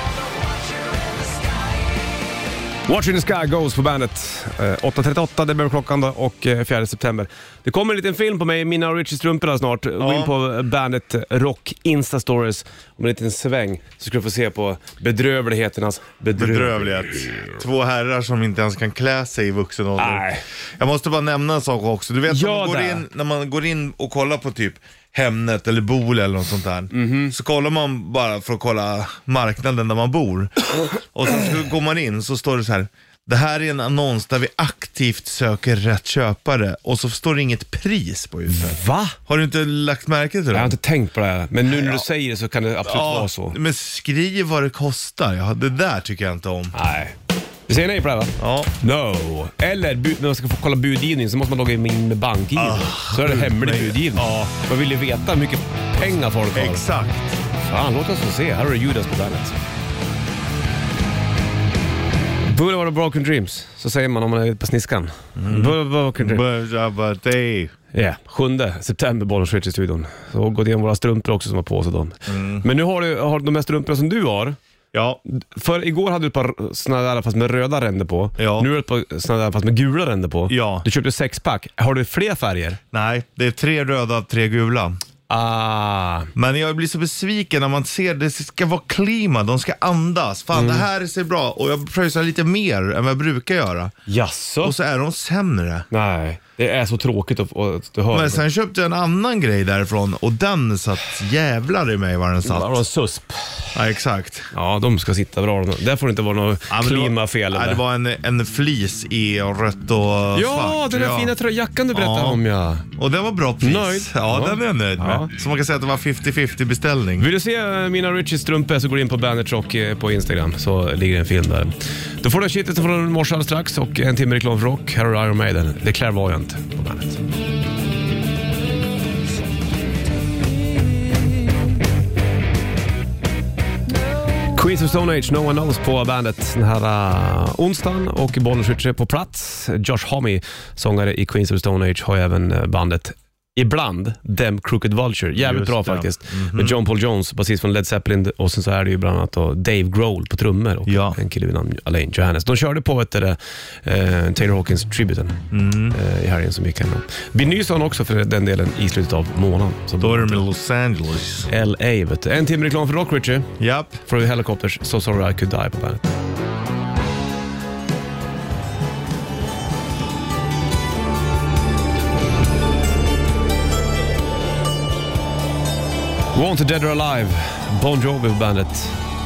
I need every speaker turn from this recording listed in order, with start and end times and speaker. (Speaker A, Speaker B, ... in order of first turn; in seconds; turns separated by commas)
Speaker A: 2.9-17.6, Speaker B: 10.0-10.3, Speaker B: 16.4-40.8, Speaker A: 20.0-20.4, Speaker A: 22.3-23.0, Speaker A: 26.9-27.3, Speaker A: 38.5-39.2, Speaker A: 40.5-43.6, Speaker B: 41.7-42.0, Speaker B: 42.8-46.7, Speaker A: 46.7-47.1, Speaker A: 47.7-56.8, Speaker B: 48.4-48.7, Speaker B: 52.5-54.5, Speaker B: 56.5-57.4, Speaker A: 57.6-59.5, Speaker A: 62.5-66.4, Speaker B: 65.3-67.7, Speaker A: 67.9-74.6, Speaker B: 72.3-72.7, Speaker B: 74.9-75.2, Speaker A: 75.3-82.8, Speaker B: 78.4-78.7, Speaker B: 80.5-80.8, Speaker B: 82.9-85.0, Speaker A: 85.3-86.3, Speaker B: 86.3-93.9, Speaker A: 90.5-90.8, Speaker A: 94.1-94.8, Speaker B: 94.6-95.9, Speaker A: 95.9-98.4, Speaker B: 98.1-102.8, Speaker A: 102.4-103.7, Speaker B: 103.7-104.5, Speaker A: 104.5-107.8, Speaker B: 106.7-111.3, Speaker A: 110.3-112.8, Speaker B: 111.9-112.4, Speaker B: 113.0-117.3, Speaker A: 113.6-115.3, Speaker A: 117.2-127.2, Speaker A: 134.5-160.4, Speaker B: 145.3-146.8, Speaker B: 150.9-151.2, Speaker B: 155.5-155.9, Speaker B: 160.0-161.5, Speaker A: 161.5-163.5, Speaker B: 163.6-164.0, Speaker A: 164.0-166.1, Speaker A: 176.3-179.0